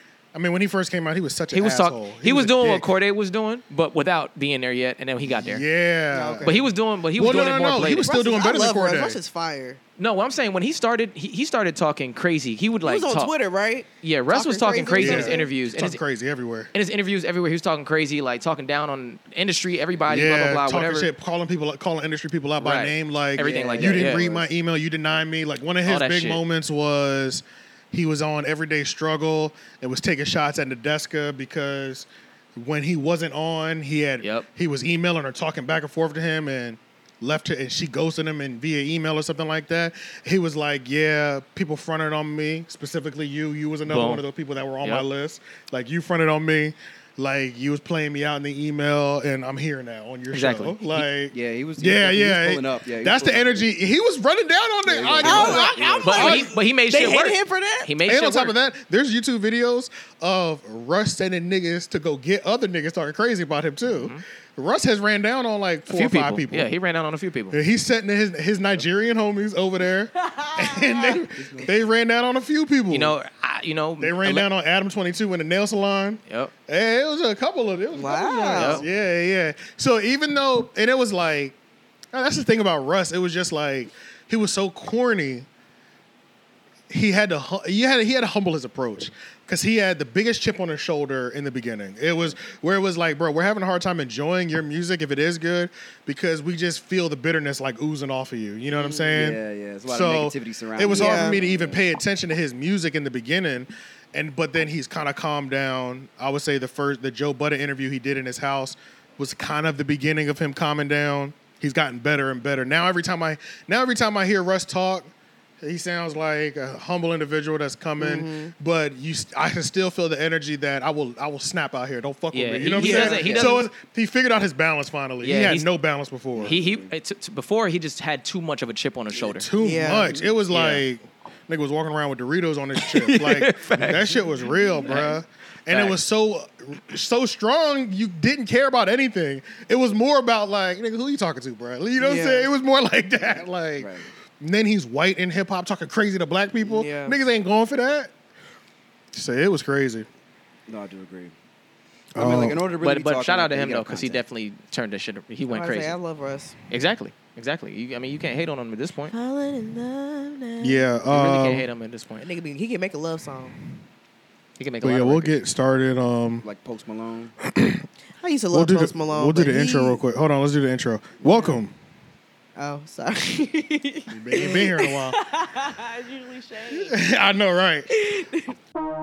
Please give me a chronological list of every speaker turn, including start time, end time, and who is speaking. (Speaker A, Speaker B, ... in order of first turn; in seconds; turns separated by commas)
Speaker A: 0.3-2.9, Speaker B: 1.5-5.6, Speaker A: 5.3-9.2, Speaker C: 6.1-6.6, Speaker B: 6.4-8.1, Speaker C: 7.9-9.8, Speaker B: 10.0-13.3, Speaker C: 12.8-15.5, Speaker B: 14.0-16.0, Speaker A: 15.0-16.7, Speaker B: 16.7-21.1, Speaker A: 20.1-56.5, Speaker B: 22.6-24.2, Speaker D: 23.4-24.5, Speaker B: 25.8-26.4, Speaker B: 43.9-44.2, Speaker B: 50.3-51.0, Speaker D: 51.3-53.7, Speaker D: 54.8-56.3, Speaker C: 55.2-57.9, Speaker B: 55.4-58.5, Speaker A: 58.0-66.7, Speaker B: 63.9-64.2, Speaker B: 65.9-67.6, Speaker A: 67.5-73.1, Speaker C: 70.2-71.2, Speaker D: 71.3-71.7, Speaker B: 72.9-74.5, Speaker A: 74.0-81.5, Speaker C: 77.9-78.9, Speaker B: 78.5-78.8, Speaker A: 82.1-85.5, Speaker A: 86.9-126.5, Speaker C: 98.7-99.2, Speaker D: 99.1-101.8, Speaker C: 100.9-101.4, Speaker C: 118.0-118.5, Speaker B: 122.3-123.6, Speaker C: 122.8-123.5, Speaker D: 123.1-123.5, Speaker B: 125.2-125.7, Speaker D: 126.3-126.9, Speaker B: 126.4-129.5, Speaker A: 129.1-148.1, Speaker C: 129.6-130.1, Speaker D: 129.9-130.3, Speaker B: 130.5-130.8, Speaker B: 132.8-134.2, Speaker D: 133.8-134.2, Speaker B: 134.8-136.0, Speaker C: 142.0-142.5, Speaker D: 143.2-144.1, Speaker C: 146.6-147.2, Speaker A: 149.1-150.1, Speaker D: 150.7-151.3, Speaker A: 152.1-152.6, Speaker D: 152.2-154.2, Speaker B: 152.8-156.0, Speaker C: 155.5-156.6, Speaker B: 156.7-159.1, Speaker C: 159.1-160.8, Speaker A: 160.6-161.7, Speaker B: 161.1-162.3, Speaker C: 162.2-163.5, Speaker B: 164.6-165.4, Speaker A: 164.8-166.4, Speaker D: 166.4-167.3, Speaker A: 167.4-167.8, Speaker C: 168.2-170.0, Speaker A: 168.5-171.7, Speaker C: 171.2-171.5, Speaker C: 172.6-177.0, Speaker A: 174.1-175.2, Speaker A: 176.7-177.9, Speaker C: 177.9-178.5